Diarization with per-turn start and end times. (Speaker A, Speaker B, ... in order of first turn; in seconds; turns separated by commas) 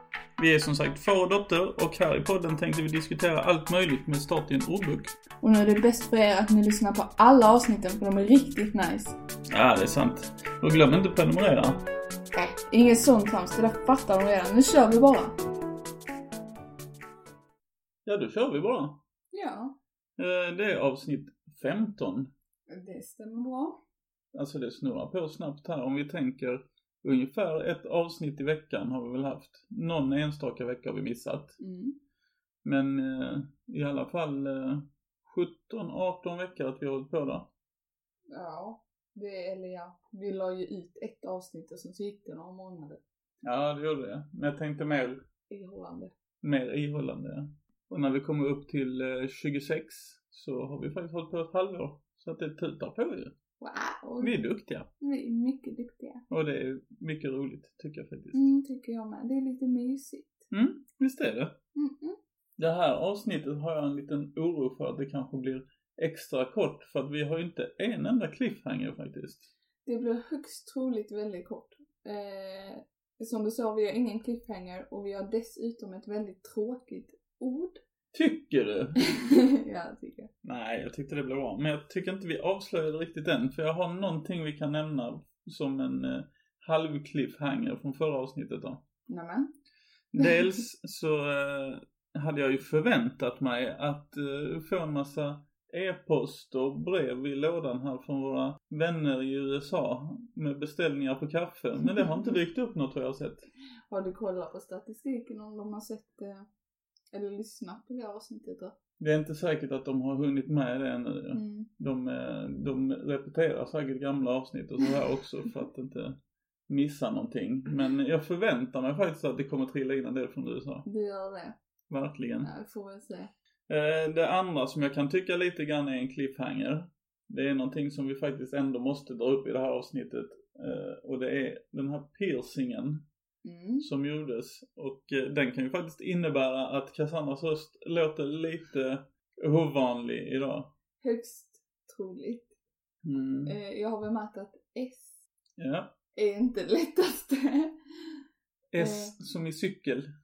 Speaker A: 0.4-5.1, Speaker B: 5.4-9.2, Speaker A: 9.5-11.8, Speaker B: 12.3-15.4, Speaker A: 18.1-19.0, Speaker B: 19.3-19.8, Speaker A: 20.2-22.3, Speaker B: 22.7-23.8, Speaker A: 24.3-31.6, Speaker B: 31.6-32.0, Speaker A: 32.6-37.5, Speaker B: 38.3-43.0, Speaker A: 43.4-45.2, Speaker B: 45.5-46.1, Speaker A: 46.4-53.3, Speaker B: 53.6-54.4, Speaker A: 54.2-54.9, Speaker B: 55.0-56.2, Speaker A: 56.3-58.5, Speaker B: 58.3-60.5, Speaker A: 60.5-61.5, Speaker B: 61.7-62.2, Speaker A: 62.6-69.5, Speaker B: 69.8-77.8, Speaker A: 78.1-79.0, Speaker B: 79.0-80.3, Speaker A: 80.4-88.8, Speaker B: 89.1-89.5, Speaker A: 90.1-103.5, Speaker B: 103.9-106.5, Speaker B: 107.1-108.7, Speaker A: 109.0-120.8, Speaker B: 111.3-111.7, Speaker B: 120.8-121.6, Speaker A: 121.9-122.5, Speaker B: 122.4-123.3, Speaker A: 123.7-133.0, Speaker B: 133.4-133.9, Speaker A: 133.8-140.7, Speaker B: 141.0-142.5, Speaker A: 143.0-143.6, Speaker B: 143.4-145.2, Speaker A: 145.6-145.9, Speaker B: 146.1-147.7, Speaker A: 148.7-150.1, Speaker B: 148.8-149.1